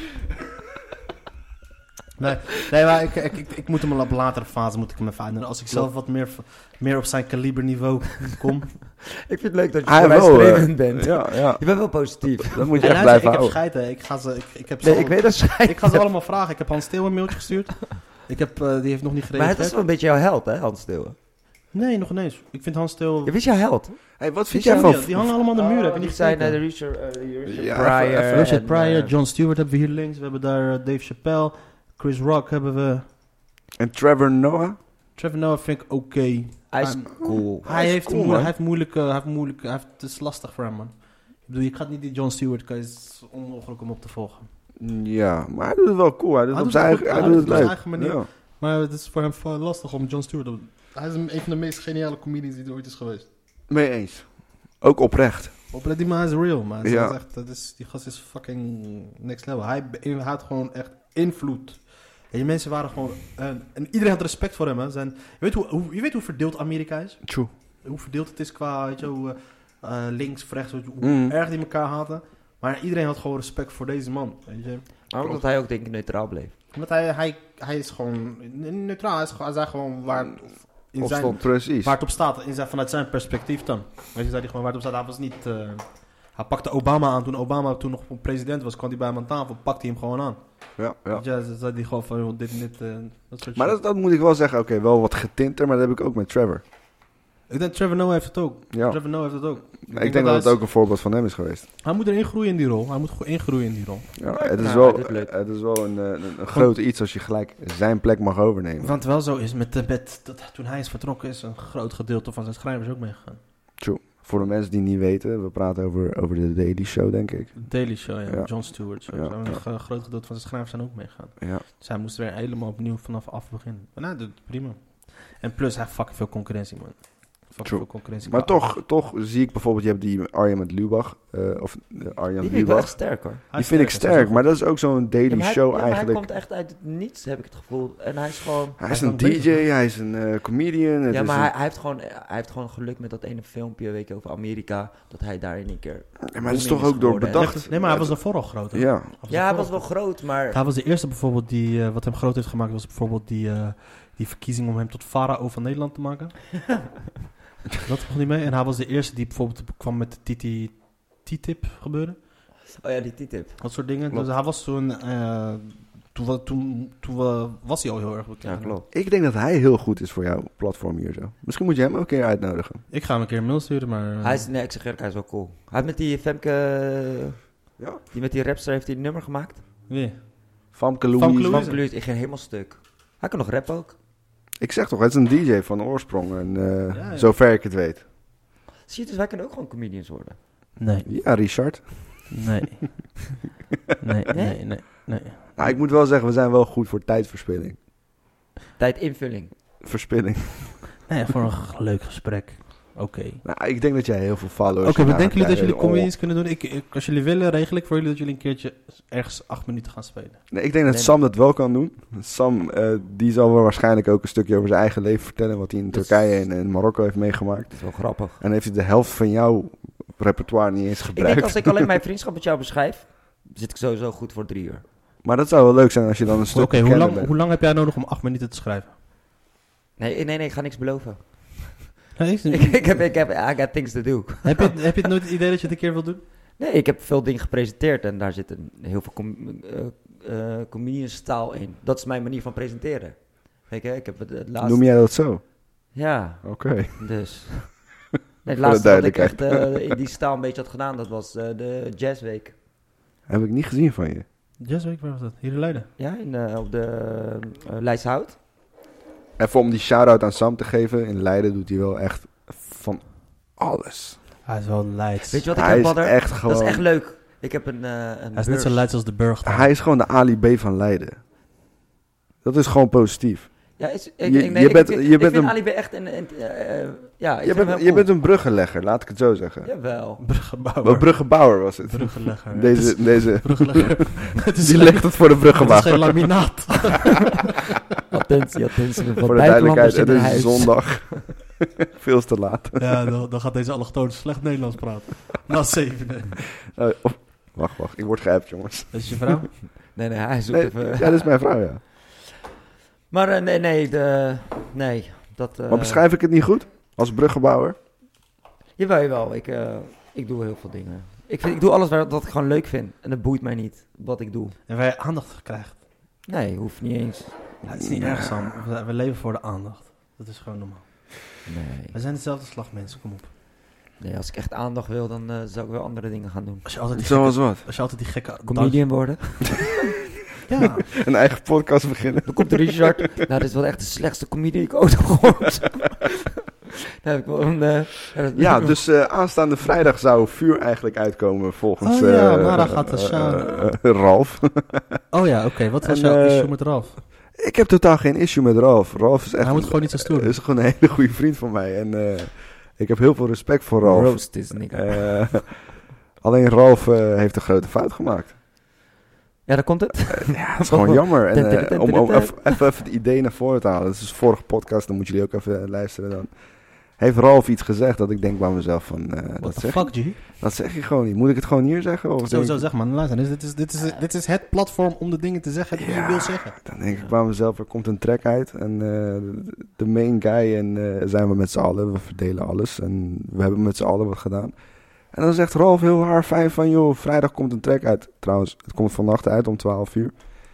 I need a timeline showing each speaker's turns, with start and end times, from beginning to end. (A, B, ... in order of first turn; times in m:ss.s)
0:02.2-0:08.8 A
0:09.2-0:13.0 B
0:09.8-0:11.6 C
0:12.5-0:13.5 C
0:12.8-0:19.8 A
0:14.8-0:16.0 B
0:19.3-0:21.2 B
0:21.7-0:23.3 A
0:23.2-0:29.1 B
0:24.2-0:25.3 C
0:24.5-0:26.6 A
0:27.4-0:28.5 C
0:28.3-0:33.0 A
0:33.8-0:34.8 C
0:35.2-0:40.9 A
0:36.7-0:37.7 B
0:37.6-0:38.5 C
0:41.4-0:44.5 A
0:44.8-0:48.3 C
0:46.5-0:53.3 A
0:47.1-0:47.5 B
0:53.7-0:55.5 C
0:55.7-1:07.2 A
0:56.8-0:57.2 C
1:07.8-1:14.9 A
1:11.0-1:11.3 C
1:15.1-1:16.5 B
1:16.7-1:30.4 A
1:21.0-1:21.9 C
1:30.8-1:31.2 C
1:31.1-1:33.8 A
1:33.5-1:36.6 C
1:37.5-1:40.6 A
1:38.7-1:39.0 C
1:39.9-1:41.7 C
1:41.8-1:44.1 A
1:44.2-1:48.9 C
1:44.3-1:45.3 B
1:48.8-1:53.4 A
1:53.8-1:57.6 C
1:57.6-2:08.8 A
1:58.2-1:58.5 C
1:59.1-1:59.6 C
2:07.6-2:16.2 C
2:12.4-2:13.4 B
2:13.5-2:14.5 A
2:15.3-2:18.8 B
2:18.8-2:21.5 C
2:18.9-2:19.6 A
2:21.1-2:27.5 B
2:26.3-2:28.2 C
2:27.3-2:36.4 A
2:28.7-2:29.1 C
2:29.3-2:30.6 B
2:37.8-2:42.2 A
2:42.6-2:43.6 B
2:43.6-2:48.8 A
2:48.4-2:48.8 B
2:48.9-2:52.8 C
2:52.9-2:54.5 A
2:54.2-2:57.4 B
2:58.1-2:59.6 B
2:59.9-3:00.3 A
3:00.7-3:01.6 C
3:01.2-3:01.8 A
3:01.5-3:04.0 B
3:04.6-3:08.0 C
3:06.9-3:07.3 A
3:08.8-3:10.4 B
3:10.8-3:11.1 A
3:11.0-3:12.3 C
3:12.3-3:13.2 A
3:14.0-3:15.7 A
3:14.3-3:14.6 B
3:15.6-3:17.8 C
3:18.8-3:19.5 B
3:19.8-3:20.9 C
3:21.1-3:23.4 A
3:23.4-3:26.1 C
3:24.8-3:30.4 A
3:30.5-3:41.8 C
3:30.9-3:31.1 B
3:35.9-3:36.2 B
3:37.7-3:38.4 B
3:41.1-3:44.8 B
3:45.2-3:47.3 C
3:46.5-3:48.9 A
3:50.0-3:54.9 B
3:52.2-3:52.9 A
3:54.4-3:56.2 A
3:56.6-4:04.8 B
4:04.6-4:05.5 C
4:05.9-4:12.5 B
4:06.4-4:07.0 C
4:08.5-4:09.8 C
4:13.3-4:14.2 C
4:14.6-4:15.9 A
4:16.0-4:18.4 B
4:19.4-4:23.0 C
4:23.6-4:24.2 C
4:24.4-4:25.4 A
4:25.3-4:28.8 B
4:25.5-4:26.8 C
4:28.4-4:29.7 A
4:29.4-4:31.2 C
4:32.4-4:35.6 C
4:33.8-4:38.1 B
4:37.4-4:39.7 C
4:39.6-4:40.2 B
4:40.2-4:47.6 A
4:40.8-4:46.3 C
4:48.1-4:51.2 B
4:49.2-4:52.8 C
4:52.8-4:56.4 A
4:56.7-4:59.3 C
4:58.9-4:59.6 A
4:59.9-5:01.3 B
5:00.5-5:01.8 C
5:03.1-5:06.0 B
5:05.7-5:07.8 C
5:08.8-5:14.6 B
5:14.7-5:15.8 A
5:16.2-5:17.3 B
5:17.6-5:21.4 A
5:17.7-5:18.5 C
5:21.5-5:22.0 B
5:21.9-5:23.3 A
5:24.0-5:26.7 B
5:26.6-5:29.1 A
5:27.0-5:27.6 C
5:28.4-5:29.8 B
5:30.4-5:30.9 A
5:30.9-5:33.0 C
5:32.2-5:36.1 B
5:37.0-5:38.7 B
5:38.3-5:45.0 C
5:41.8-5:43.4 A
5:45.1-5:47.0 A
5:45.8-5:46.5 C
5:47.3-5:58.4 C
5:49.4-5:50.4 A
5:53.8-5:55.3 B
5:59.4-6:02.6 B
6:00.1-6:06.4 C
6:06.9-6:12.6 C
6:09.4-6:10.2 A
6:12.2-6:16.7 A
6:15.8-6:24.5 C
6:25.1-6:30.2 C